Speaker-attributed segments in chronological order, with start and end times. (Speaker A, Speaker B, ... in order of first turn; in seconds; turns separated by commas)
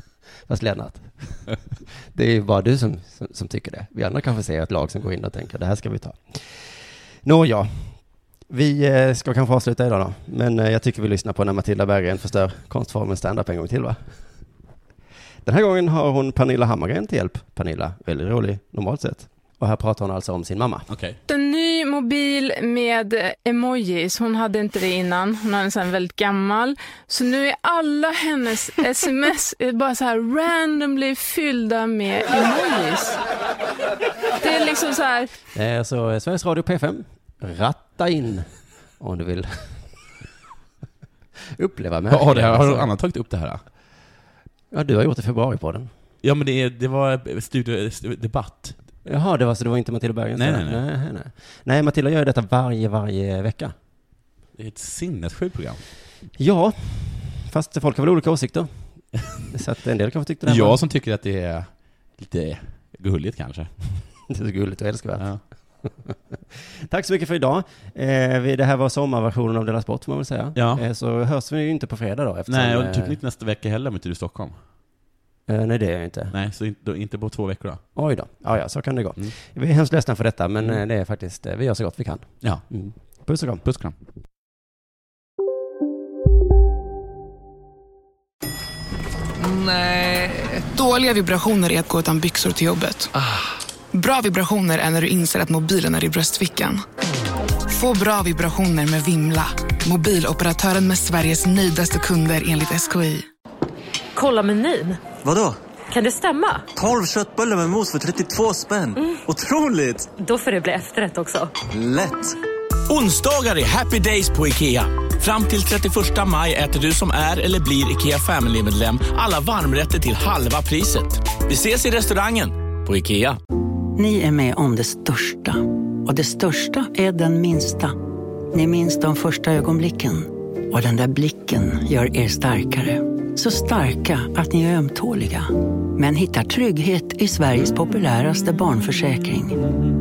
Speaker A: 0.5-14.5, Speaker A: 15.4-20.9, Speaker B: 20.9-21.2, Speaker C: 21.3-33.2, Speaker C: 34.4-35.3, Speaker A: 35.5-40.0, Speaker A: 41.6-42.9, Speaker B: 42.1-43.6, Speaker A: 44.7-45.9, Speaker B: 46.2-48.8, Speaker A: 49.0-53.7, Speaker B: 50.4-50.8, Speaker B: 54.5-55.8, Speaker A: 56.4-60.8, Speaker B: 60.4-63.9, Speaker A: 64.3-66.1, Speaker A: 66.9-73.2, Speaker B: 70.5-70.8, Speaker B: 72.5-74.7, Speaker A: 75.5-76.3, Speaker B: 76.3-77.9, Speaker A: 78.0-83.6, Speaker B: 82.4-84.0, Speaker D: 89.4-93.1, Speaker D: 93.9-96.8, Speaker D: 97.7-103.3, Speaker E: 104.2-105.0, Speaker F: 105.2-105.6, Speaker E: 105.9-106.7, Speaker F: 106.8-110.2, Speaker E: 110.2-111.5, Speaker F: 111.7-112.4, Speaker G: 112.9-123.4, Speaker H: 124.0-128.0, Speaker H: 128.5-139.6